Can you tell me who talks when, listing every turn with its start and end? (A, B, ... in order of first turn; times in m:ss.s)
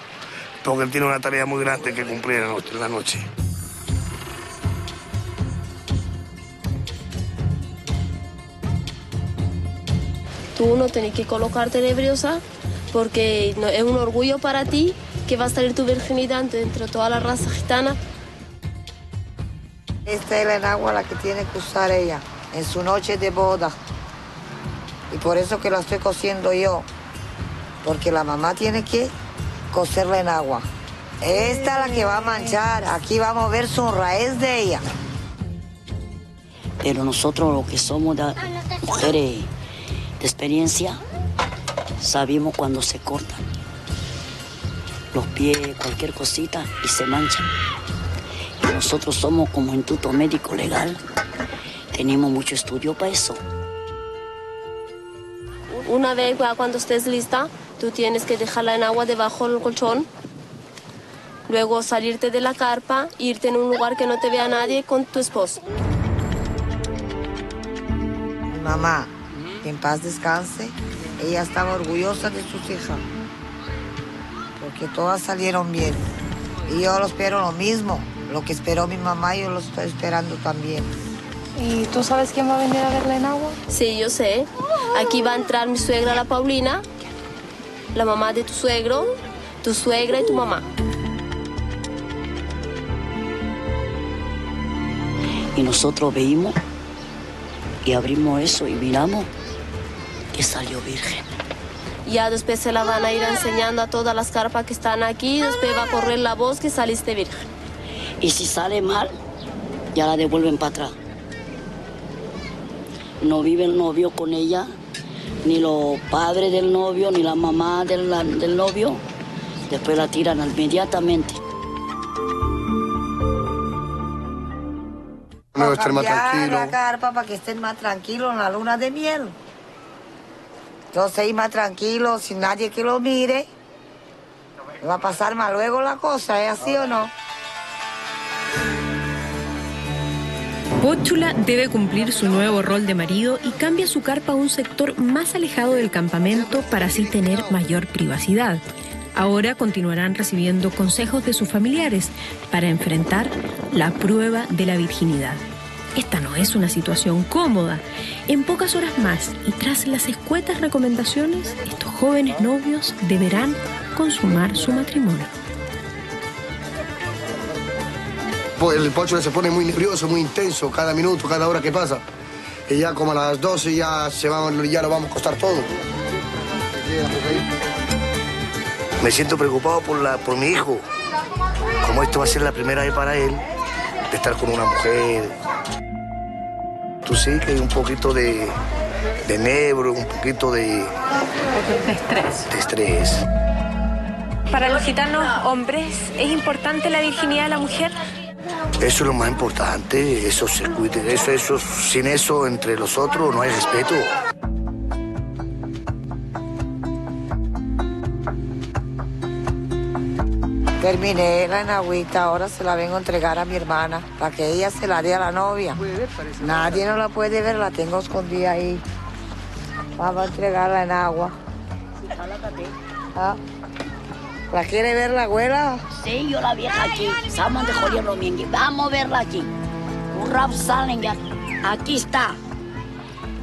0:00.6-0:03.3 A
0:10.6-0:18.0 B
0:20.1-0:23.8 C
0:25.1-0:26.9 C
0:27.8-0:29.1 C
0:29.7-0:30.7 C
0:31.2-0:34.8 C
0:36.8-0:39.5 D
0:40.2-0:41.0 D
0:42.0-0:43.4 D
0:45.1-0:47.4 D
0:48.6-0:51.0 D
0:51.9-0:53.4 D
0:55.9-1:00.1 B
1:01.5-1:05.6 B
1:08.5-1:09.1 C
1:09.6-1:13.0 C
1:14.6-1:16.0 C
1:16.7-1:20.9 C
1:21.6-1:23.6 E
1:23.7-1:26.8 B
1:27.9-1:30.7 B
1:35.6-1:36.6 D
1:37.8-1:39.3 D
1:40.4-1:41.3 D
1:42.1-1:47.4 B
1:48.2-1:49.1 D
1:50.0-1:50.9 D
1:53.2-1:54.7 D
1:55.4-1:59.0 D
1:59.7-2:01.4 D
2:05.6-2:06.8 F
2:05.6-2:09.4 C
2:10.9-2:13.5 C
2:14.8-2:17.1 C
2:20.8-2:28.6 G
2:29.2-2:35.4 G
2:36.0-2:45.3 G
2:48.6-2:52.0 F
2:52.7-2:55.7 F
2:56.8-2:57.4 F
2:59.0-3:00.8 A
3:01.8-3:03.4 A
3:04.1-3:05.4 A
3:07.1-3:08.6 A
3:09.2-3:10.9 A
3:11.6-3:12.4 H
3:12.5-3:13.2 A
3:14.5-3:18.0 H
3:18.8-3:24.1 A
3:30.8-3:35.8 C
3:36.4-3:38.8 C
3:40.0-3:41.4 C
3:44.5-3:45.8 C
3:46.0-3:49.5 D
3:50.1-3:52.4 D